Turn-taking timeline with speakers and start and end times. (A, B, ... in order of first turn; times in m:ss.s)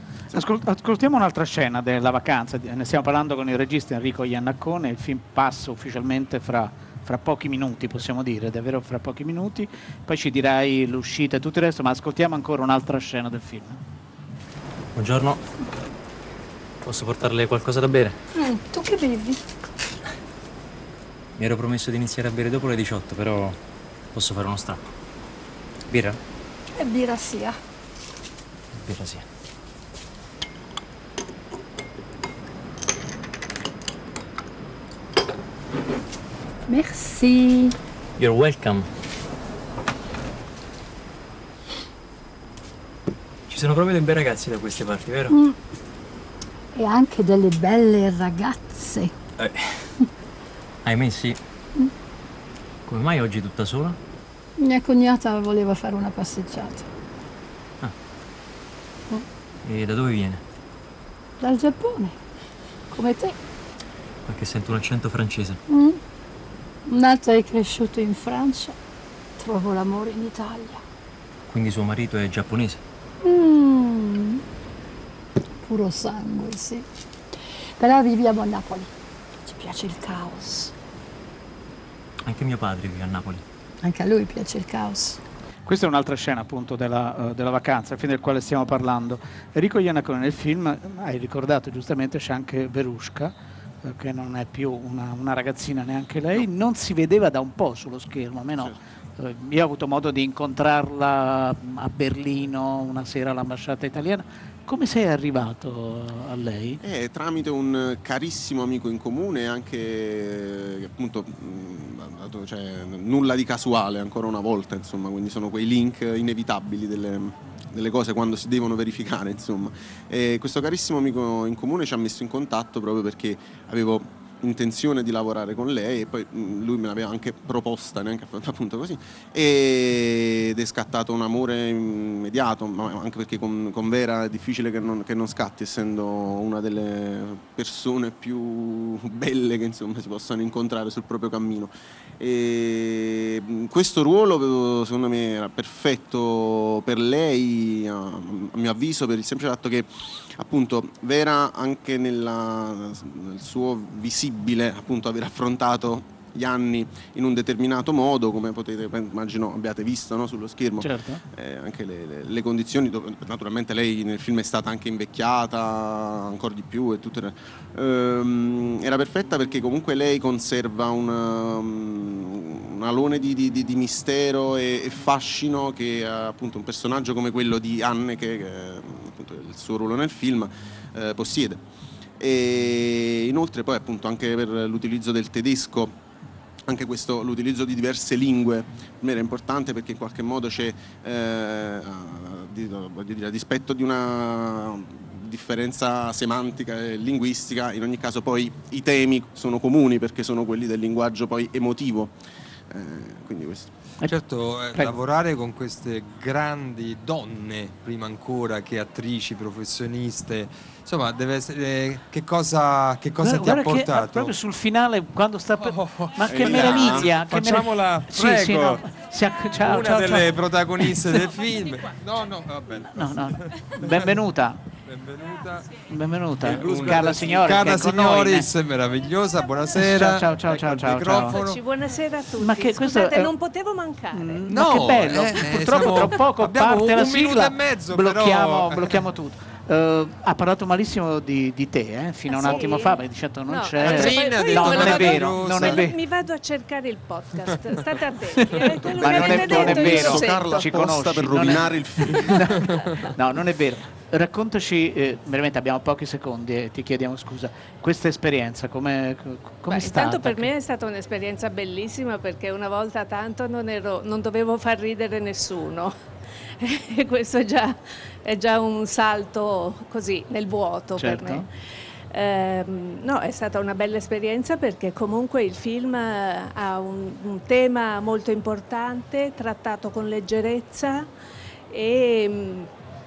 0:00.3-0:13.8 A
0:15.0-0:15.4 B
0:16.8-0:18.2 B
0:18.3-0:19.4 C
0:21.4-0:23.6 B
0:24.1-0:24.8 B
0:25.9-0:26.2 B
0:26.7-0:27.6 C
0:28.8-0:29.2 B
0:36.7-0:37.8 C
0:38.2-0:38.9 B
0:43.5-0:45.4 B
0:45.3-0:45.6 C
0:46.8-0:49.1 C
0:49.4-0:49.9 B
0:50.8-0:51.4 B
0:52.8-0:54.0 B
0:54.6-0:56.8 C
0:59.6-1:00.4 B
1:01.4-1:02.2 C
1:02.9-1:03.4 C
1:04.3-1:05.6 B
1:05.7-1:06.0 C
1:06.9-1:08.8 C
1:09.4-1:10.8 C
1:11.5-1:12.8 B
1:13.2-1:14.4 C
1:15.6-1:16.9 C
1:17.8-1:18.9 C
1:19.5-1:20.7 C
1:22.2-1:23.4 B
1:23.8-1:25.2 C
1:25.7-1:46.8 A
1:46.8-3:01.6 D
2:40.8-2:41.2 A
3:02.2-3:06.0 D
3:06.7-3:22.2 D
3:22.7-3:23.7 D
3:24.0-3:34.4 E
3:33.2-3:41.0 A
3:35.6-3:38.9 E
3:36.3-3:37.1 D
3:39.5-3:44.2 E
3:42.8-3:44.6 A
3:44.8-3:45.8 E
3:45.9-3:48.5 A
3:46.4-3:51.6 E
3:49.8-3:51.4 A
3:51.3-3:54.5 F
3:52.4-3:53.3 A
3:54.1-4:06.0 A
3:54.5-3:59.0 E
4:02.3-4:10.5 F
4:03.8-4:05.9 E
4:08.8-4:20.5 A
4:09.0-4:12.5 D
4:19.7-4:25.9 F
4:26.6-4:41.1 F
4:31.0-4:31.5 A
4:41.7-4:42.7 F